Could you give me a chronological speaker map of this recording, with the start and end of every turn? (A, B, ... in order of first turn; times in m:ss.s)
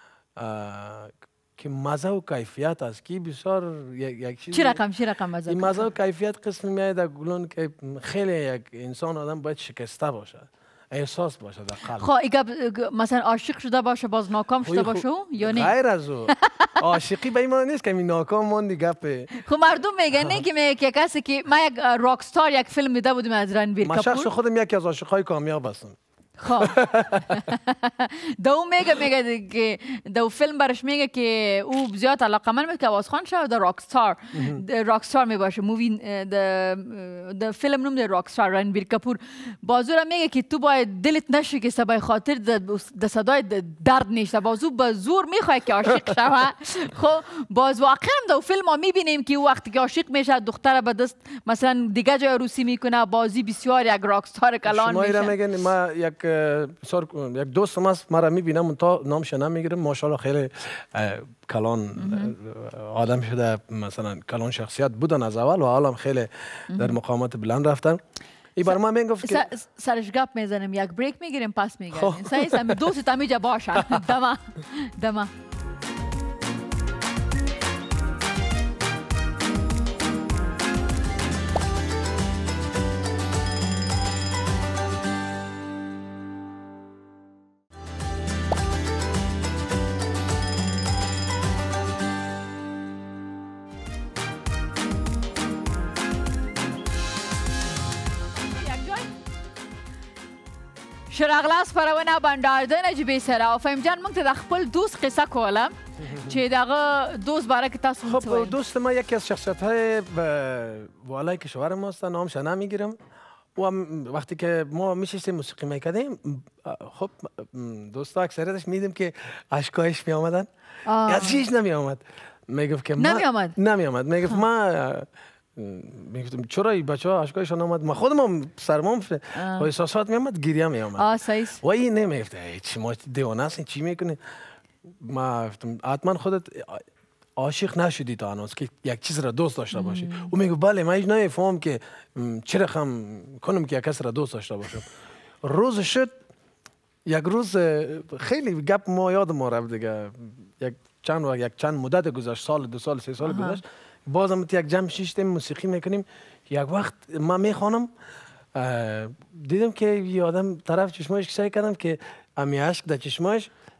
0:00.4-0:04.8 A
0:04.5-0:05.8 B
0:05.5-0:12.1 A
0:12.0-0:15.7 B
0:14.6-0:19.3 A
0:19.4-0:24.3 B
0:23.8-0:26.0 A
0:26.4-0:55.4 B
0:26.5-0:27.4 A
0:34.3-0:34.6 A
0:54.7-1:08.0 A
1:02.0-1:02.3 B
1:06.7-1:07.0 B
1:08.6-1:09.4 A
1:08.7-1:15.3 B
1:11.9-1:12.9 A
1:38.5-1:39.1 B
1:41.1-1:48.5 B
1:48.0-1:53.0 A
1:53.6-2:00.5 A
2:00.8-2:01.4 B
2:01.0-2:14.2 A
2:03.0-2:03.6 B
2:09.3-2:09.7 B
2:11.0-2:11.6 B
2:15.0-2:16.8 A
2:17.4-2:24.9 A
2:19.7-2:20.3 B
2:25.4-2:26.1 A
2:27.1-2:37.9 A
2:33.2-2:33.6 B
2:38.5-2:43.5 A